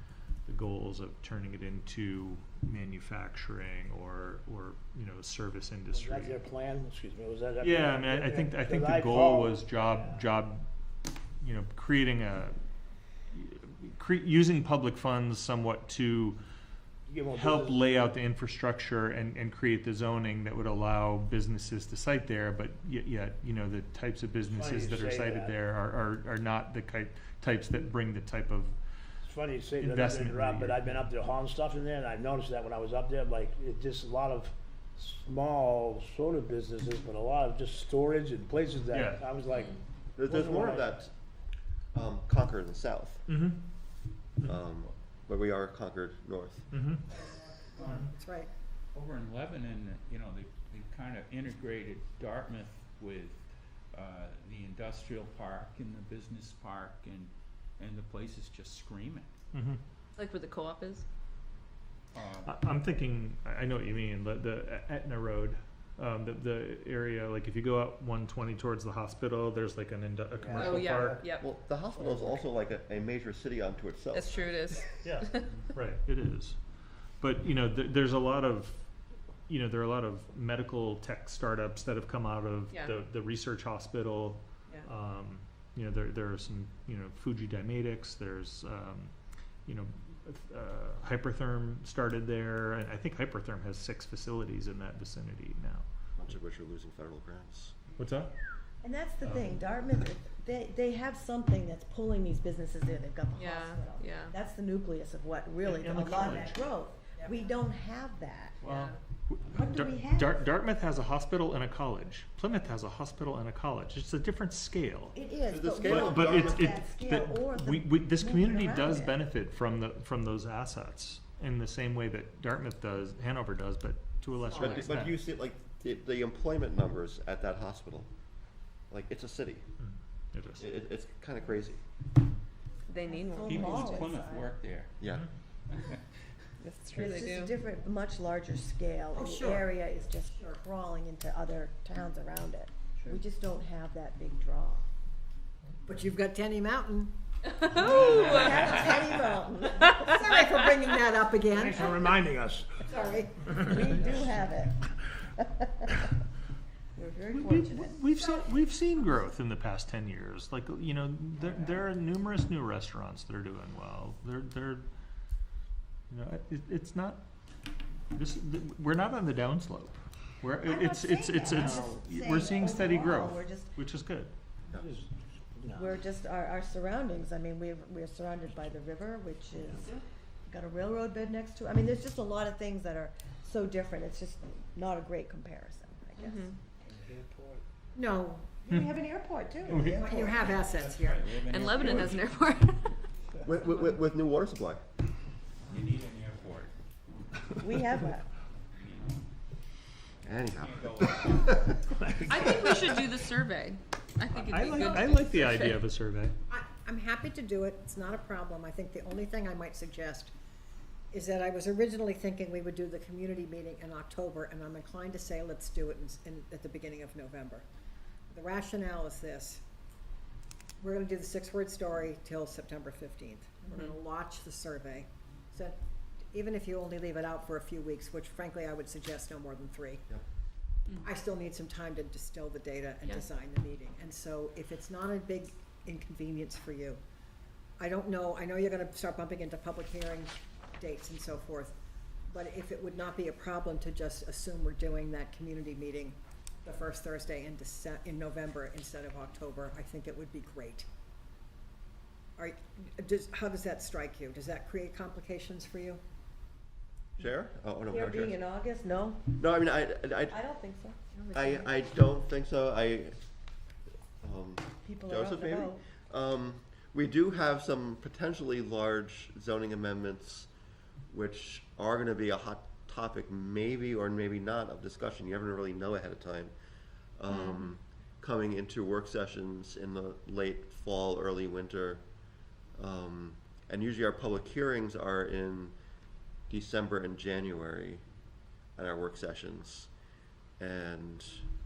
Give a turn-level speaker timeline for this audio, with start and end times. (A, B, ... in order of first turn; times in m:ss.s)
0:00.4-0:06.4 A
0:05.9-0:10.2 B
0:07.6-0:10.6 A
0:11.4-0:12.6 A
0:13.3-0:16.4 A
0:17.1-0:17.9 B
0:17.4-0:28.7 A
0:24.5-0:25.5 B
0:29.2-0:40.9 B
0:29.8-0:31.0 A
0:38.9-0:39.2 A
0:39.5-0:39.8 C
0:40.2-0:41.1 D
0:41.9-0:43.2 D
0:43.3-0:43.6 A
0:44.4-0:46.7 D
0:46.7-0:47.0 A
0:47.1-0:48.5 E
0:47.8-0:48.1 A
0:48.9-0:59.3 F
0:59.5-0:59.8 A
1:00.2-1:01.0 C
1:02.1-1:02.6 F
1:02.4-1:11.2 A
1:10.4-1:11.2 B
1:10.6-1:11.5 C
1:11.4-1:14.4 D
1:14.1-1:15.5 C
1:15.0-1:16.6 A
1:17.2-1:18.8 A
1:19.5-1:29.1 A
1:22.7-1:23.0 C
1:29.6-1:35.8 A
1:36.2-1:37.8 D
1:38.0-1:38.3 A
1:38.8-1:48.6 G
1:39.2-1:39.6 A
1:43.3-1:44.3 C
1:45.6-1:46.6 A
1:48.6-1:55.2 A
1:48.6-1:49.0 C
1:49.5-1:50.4 G
1:55.1-1:59.2 G
1:55.5-1:56.7 D
1:55.8-2:05.2 A
2:04.4-2:05.0 C
2:04.6-2:08.1 D
2:08.9-2:09.7 D
2:09.8-2:10.6 A
2:10.6-2:11.8 D
2:12.9-2:13.9 C
2:13.0-2:14.5 G
2:13.4-2:14.9 F
2:15.0-2:15.2 D
2:16.6-2:17.5 C
2:16.9-2:24.8 G
2:19.1-2:19.7 E
2:25.8-2:27.1 E
2:27.5-2:28.6 C
2:27.8-2:30.2 G
2:27.9-2:29.0 F
2:29.8-2:30.7 C
2:30.0-2:32.2 E
2:31.5-2:32.8 B
2:32.8-2:34.2 E
2:33.4-2:36.0 G
2:36.9-2:37.9 G
2:37.3-2:44.8 A
2:46.1-2:47.2 A
2:48.1-2:54.3 A
2:50.6-2:53.7 G
2:54.8-2:56.0 B
2:55.7-3:06.5 G
3:06.2-3:06.6 C
3:06.9-3:07.6 B
3:07.9-3:08.6 E
3:08.6-3:10.4 G
3:09.7-3:11.3 E
3:10.6-3:12.3 F
3:11.4-3:13.0 C
3:11.7-3:12.2 D
3:13.4-3:14.8 D
3:15.7-3:16.7 F
3:17.6-3:18.2 G
3:18.7-3:19.2 F
3:20.2-3:23.0 D
3:20.4-3:21.7 F
3:22.2-3:22.6 B
3:22.3-3:25.9 C
3:22.3-3:22.6 F
3:24.4-3:26.4 A
3:26.5-3:30.3 E
3:31.1-3:37.6 E
3:38.3-3:39.6 E
3:40.8-3:45.8 E
3:43.7-3:44.0 C
3:46.3-3:50.0 E
3:51.0-3:57.0 E
3:57.8-4:01.8 E
4:02.3-4:10.8 E
4:12.4-4:16.0 E
4:17.2-4:18.4 D
4:17.8-4:19.4 G
4:19.4-4:20.4 D
4:20.3-4:21.7 G
4:21.3-4:23.2 D
4:24.2-4:30.5 D
4:24.8-4:25.8 G
4:31.1-4:36.5 D
4:37.2-4:42.0 D
4:37.3-4:37.7 C
4:42.7-4:45.7 D
4:46.5-4:48.0 D
4:48.8-4:49.9 D
4:50.6-4:51.4 D